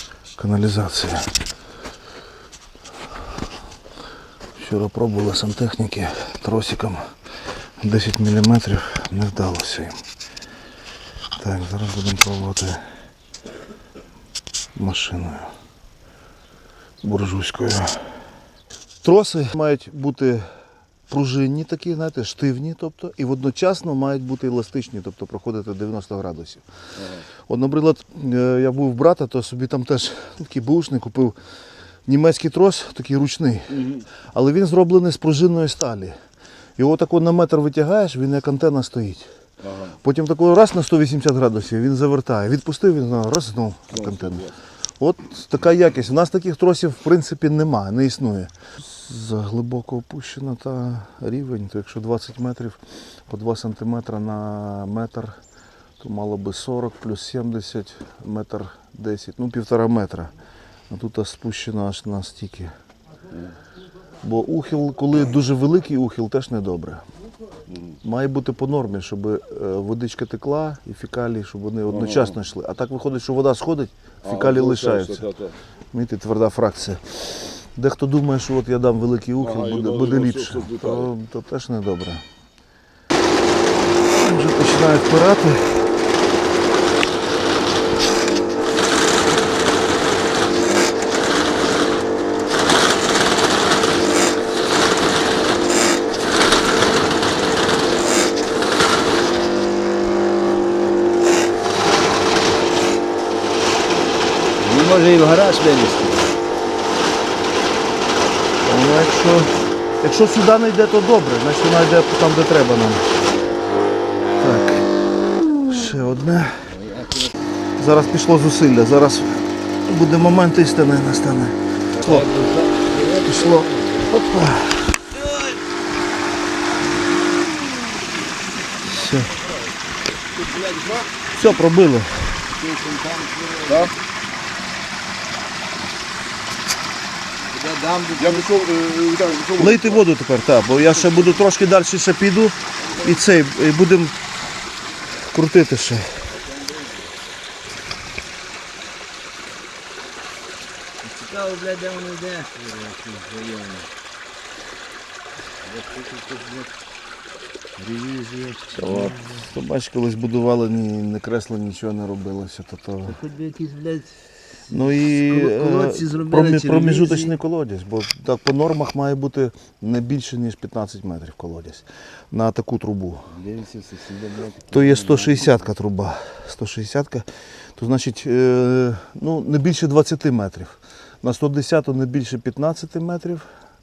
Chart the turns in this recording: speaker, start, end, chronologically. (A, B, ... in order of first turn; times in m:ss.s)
0:00.4-0:01.3 A
0:04.6-0:07.1 A
0:07.8-0:10.0 A
0:11.4-0:12.8 A
0:14.7-0:15.5 A
0:17.0-0:18.1 A
0:19.0-0:20.5 A
0:21.1-0:26.6 A
0:27.0-0:27.2 B
0:27.4-0:31.4 A
0:32.0-0:36.2 A
0:33.8-0:34.0 B
0:36.8-0:39.3 A
0:39.6-0:39.9 B
0:39.9-0:55.4 A
0:43.9-0:44.5 B
0:56.0-1:00.3 A
1:00.9-1:02.7 A
1:04.2-1:07.0 A
1:07.7-1:08.0 B
1:08.0-1:15.3 A
1:11.9-1:12.4 B
1:14.2-1:15.6 B
1:15.9-1:22.2 A
1:19.4-1:21.1 B
1:24.0-1:25.9 A
1:44.6-1:46.4 C
1:48.6-1:53.1 A
1:54.4-1:56.7 A
1:56.6-1:57.5 C
1:57.8-2:02.3 A
2:02.0-2:04.1 C
2:03.1-2:05.0 A
2:08.8-2:09.4 A
2:10.4-2:11.1 B
2:10.5-2:11.4 C
2:11.3-2:12.5 A
2:12.5-2:13.9 C
2:17.4-2:18.6 C
2:18.2-2:20.1 B
2:19.6-2:24.2 A
2:20.8-2:21.4 B
2:25.1-2:26.2 A
2:31.0-2:33.9 C
2:35.6-2:36.7 C
2:37.8-2:39.5 C
2:38.7-2:43.2 A
2:43.1-2:47.3 C
2:44.7-2:53.3 A
2:53.3-2:55.7 C
2:54.7-3:03.5 A